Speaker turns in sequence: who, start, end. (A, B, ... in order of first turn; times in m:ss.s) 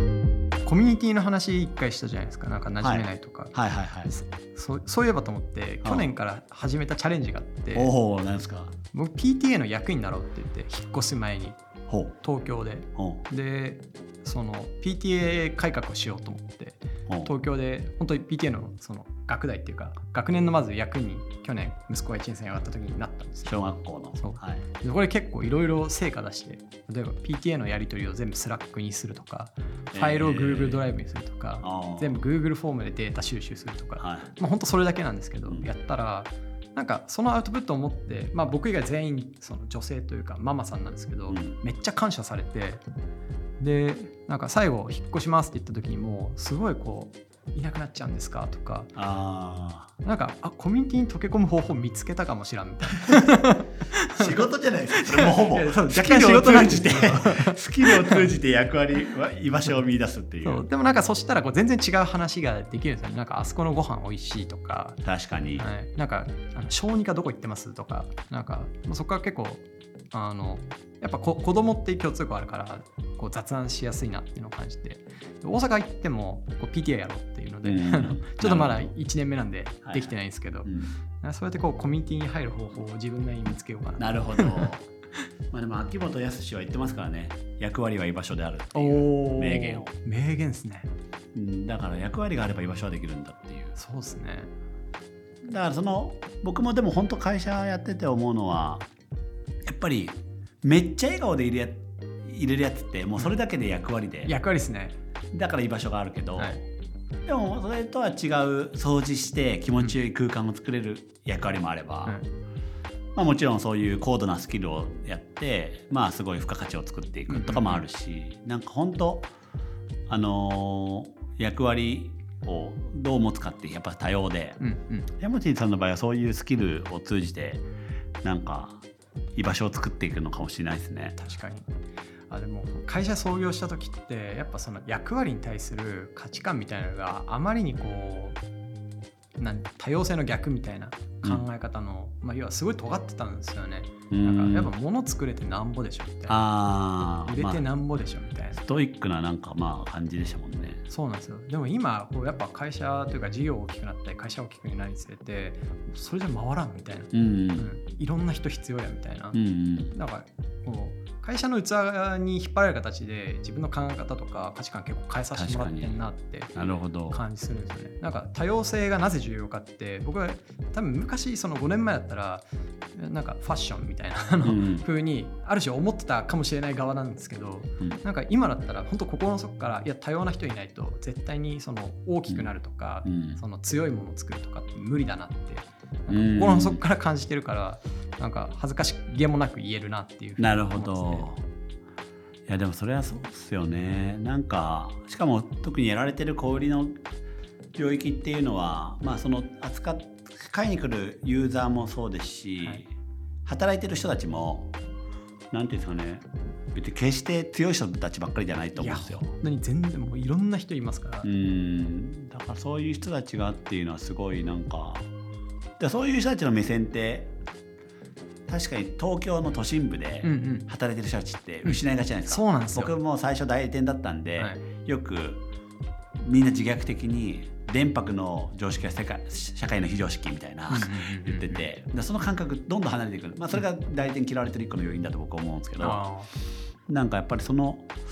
0:00.6-0:07.9 A
0:02.8-0:04.2 B
0:05.8-0:06.1 B
0:07.7-0:08.8 B
0:08.9-0:11.6 A
0:11.9-0:12.2 B
0:12.2-0:23.6 A
0:13.0-0:13.2 B
0:23.5-0:24.6 B
0:24.2-0:42.8 A
0:29.9-0:30.9 B
0:31.6-0:32.2 B
0:34.0-0:34.3 B
0:41.3-0:41.6 B
0:43.6-0:49.0 A
0:49.0-0:49.9 B
0:50.0-0:58.3 A
0:54.1-1:00.6 B
1:00.4-1:05.0 A
1:05.0-1:05.7 B
1:05.6-1:24.7 A
1:17.6-1:19.0 B
1:19.8-1:21.0 B
1:24.0-1:24.8 B
1:25.5-1:29.9 B
1:28.7-1:30.9 A
1:31.3-1:33.8 B
1:33.8-1:34.5 A
1:35.4-1:38.9 B
1:39.7-1:44.4 B
1:44.2-1:45.0 A
1:45.3-1:46.6 B
1:47.3-1:52.2 B
1:53.2-1:59.3 B
1:57.3-1:57.8 A
2:00.1-2:04.6 B
2:04.6-2:05.1 A
2:05.2-2:07.6 B
2:08.2-2:08.8 B
2:09.4-2:11.2 B
2:11.2-2:11.7 A
2:12.3-2:18.4 A
2:19.4-2:26.4 A
2:24.1-2:24.7 B
2:26.3-2:27.7 B
2:27.2-2:28.6 A
2:28.5-2:30.8 B
2:30.9-2:39.4 A
2:37.1-2:37.7 B
2:39.3-2:40.0 B
2:39.9-2:46.6 A
2:45.3-2:46.0 B
2:46.5-2:47.2 B
2:47.1-3:11.3 A
2:54.4-2:54.9 B
3:03.0-3:03.4 B
3:06.1-3:06.8 B
3:10.4-3:11.5 B
3:12.5-3:17.0 B
3:17.8-3:22.9 B
3:23.4-3:24.7 B
3:25.5-3:29.3 B
3:28.8-3:31.3 A
3:31.2-3:35.1 B
3:35.8-3:37.3 B
3:38.5-3:45.4 B
3:40.2-3:40.7 A
3:41.6-3:43.0 A
3:46.2-3:56.1 B
3:50.7-3:51.7 A
3:55.8-3:56.3 A
3:56.9-3:57.9 B